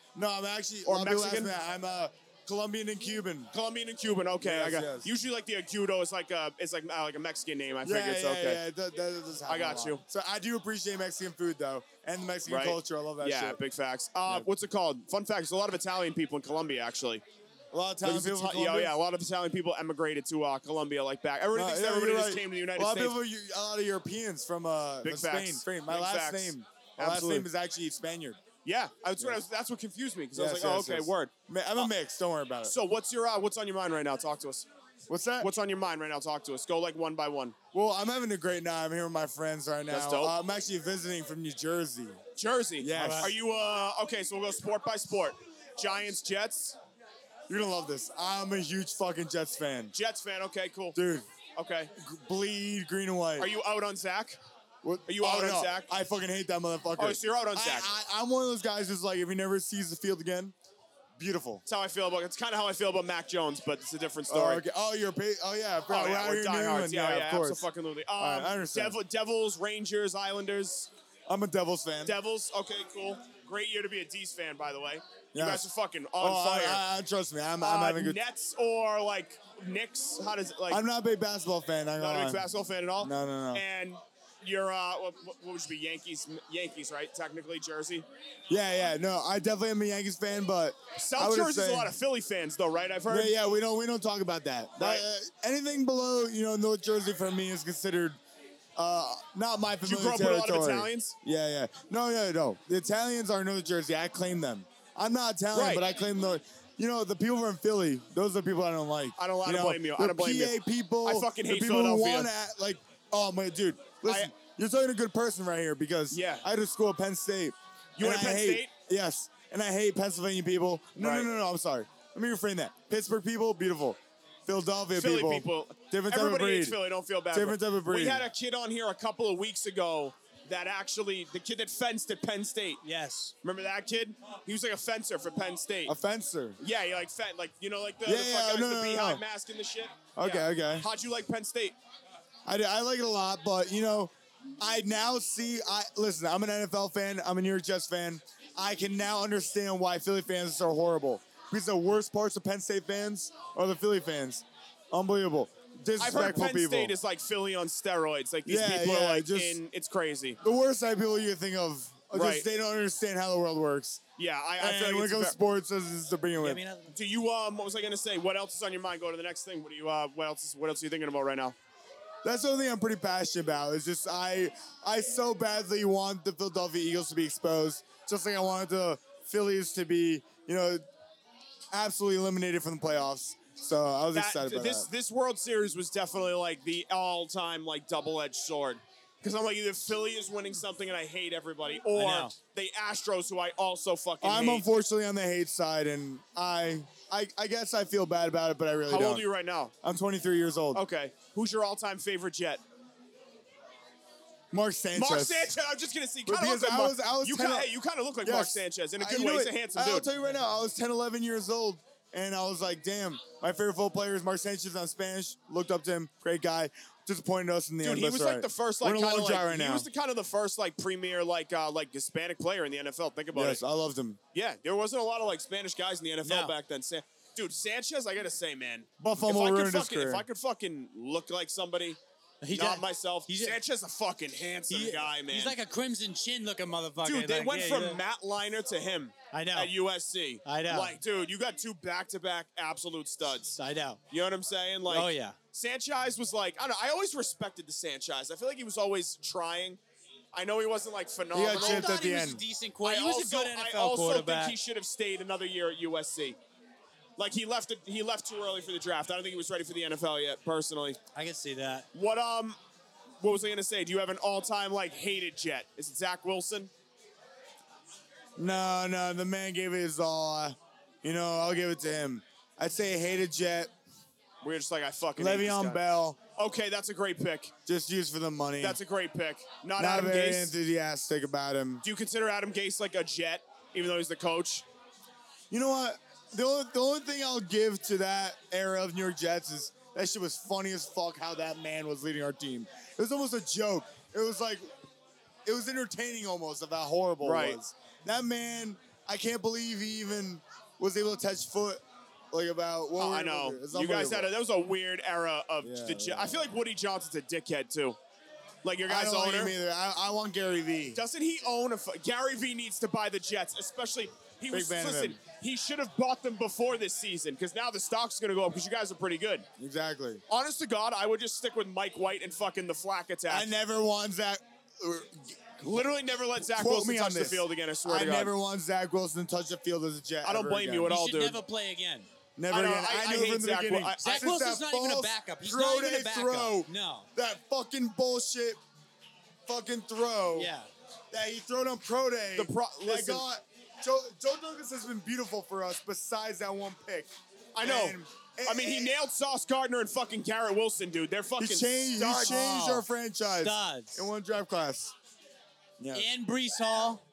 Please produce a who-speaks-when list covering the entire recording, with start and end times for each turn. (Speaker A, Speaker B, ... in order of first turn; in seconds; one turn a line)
Speaker A: 0.1-3.5
Speaker B: 0.8-1.5
Speaker B: 3.5-8.6
Speaker A: 4.4-5.1
Speaker A: 7.8-13.6
Speaker B: 9.5-10.0
Speaker B: 12.5-17.2
Speaker A: 17.7-18.9
Speaker B: 18.0-23.2
Speaker A: 21.5-28.4
Speaker B: 25.0-27.5
Speaker B: 28.6-31.9
Speaker A: 30.3-32.7
Speaker B: 32.6-34.7
Speaker A: 35.1-35.5
Speaker B: 35.4-37.6
Speaker A: 37.7-42.2
Speaker B: 39.9-40.4
Speaker B: 42.4-46.8
Speaker A: 42.8-43.4
Speaker C: 42.9-43.3
Speaker A: 47.5-49.9
Speaker B: 49.9-51.0
Speaker A: 51.0-51.3
Speaker B: 51.5-51.9
Speaker A: 52.0-53.5
Speaker B: 53.4-54.4
Speaker A: 54.8-60.5
Speaker B: 55.1-55.9
Speaker B: 57.0-57.9
Speaker A: 61.2-61.6
Speaker B: 61.7-64.6
Speaker A: 64.3-67.7
Speaker B: 65.9-70.9
Speaker A: 68.2-69.0
Speaker A: 71.3-72.2
Speaker B: 72.0-76.8
Speaker A: 75.3-75.7
Speaker A: 76.2-78.2
Speaker B: 77.6-80.8
Speaker A: 80.7-82.4
Speaker B: 82.0-88.1
Speaker A: 83.0-83.6
Speaker A: 88.5-91.9
Speaker B: 91.0-93.3
Speaker A: 93.1-98.2
Speaker B: 94.8-95.0
Speaker A: 98.8-126.8
Speaker B: 99.8-101.2
Speaker B: 105.5-105.9
Speaker B: 109.2-112.3
Speaker B: 114.0-114.3
Speaker B: 116.1-116.5
Speaker B: 118.0-118.7
Speaker B: 121.0-121.3
Speaker B: 124.9-132.8
Speaker A: 127.3-128.3
Speaker C: 132.8-133.3
Speaker B: 133.4-135.9
Speaker A: 135.9-136.6
Speaker B: 136.6-141.8
Speaker A: 138.1-139.2
Speaker A: 140.2-140.9
Speaker A: 142.5-156.9
Speaker B: 156.0-160.4
Speaker A: 158.5-159.6
Speaker A: 160.4-164.0
Speaker B: 162.1-162.5
Speaker B: 164.2-165.4
Speaker A: 164.6-166.6
Speaker C: 166.4-167.0
Speaker B: 166.9-171.6
Speaker A: 172.2-180.8
Speaker A: 181.7-184.9
Speaker B: 184.1-194.7
Speaker C: 191.9-192.3
Speaker A: 194.2-199.2
Speaker B: 198.9-199.7
Speaker A: 199.8-200.8
Speaker B: 200.7-202.6
Speaker A: 204.5-205.6
Speaker B: 204.9-210.1
Speaker A: 206.3-207.7
Speaker A: 208.2-219.9
Speaker B: 217.8-223.6
Speaker A: 223.3-224.2
Speaker B: 224.3-232.0
Speaker C: 226.2-226.5
Speaker A: 229.0-230.2
Speaker C: 232.4-233.6
Speaker B: 232.5-235.6
Speaker C: 234.7-238.0
Speaker B: 237.0-243.6
Speaker C: 239.3-239.7
Speaker C: 240.4-241.0
Speaker C: 243.6-244.0
Speaker B: 244.1-249.8
Speaker C: 244.9-245.4
Speaker B: 250.3-252.0
Speaker A: 251.3-252.4
Speaker C: 251.5-254.6
Speaker B: 252.8-256.4
Speaker B: 257.2-261.0
Speaker C: 261.1-261.9
Speaker B: 261.9-262.6
Speaker B: 263.2-266.7
Speaker A: 268.4-273.7
Speaker B: 274.4-275.8
Speaker A: 275.2-276.2
Speaker B: 276.4-277.5
Speaker A: 277.7-278.8
Speaker B: 278.6-280.5
Speaker A: 279.8-281.8
Speaker B: 281.8-284.7
Speaker A: 285.5-294.7
Speaker A: 295.5-301.8
Speaker B: 297.2-297.6
Speaker A: 302.3-304.3
Speaker B: 303.0-308.0
Speaker A: 305.6-306.5
Speaker B: 308.6-309.5
Speaker A: 308.9-311.0
Speaker B: 310.9-319.5
Speaker A: 314.5-315.2
Speaker A: 319.6-320.2
Speaker B: 320.3-323.5
Speaker A: 323.3-325.9
Speaker B: 325.6-328.3
Speaker A: 326.5-331.0
Speaker B: 330.2-331.4
Speaker C: 330.9-332.1
Speaker A: 332.4-338.6
Speaker B: 332.5-334.3
Speaker C: 334.0-337.1
Speaker A: 339.5-340.5
Speaker C: 340.4-340.7
Speaker A: 341.1-348.9
Speaker B: 342.4-343.2
Speaker B: 347.6-352.4
Speaker A: 351.4-354.9
Speaker C: 352.1-352.9
Speaker C: 353.4-354.1
Speaker A: 355.8-356.1
Speaker C: 355.9-357.0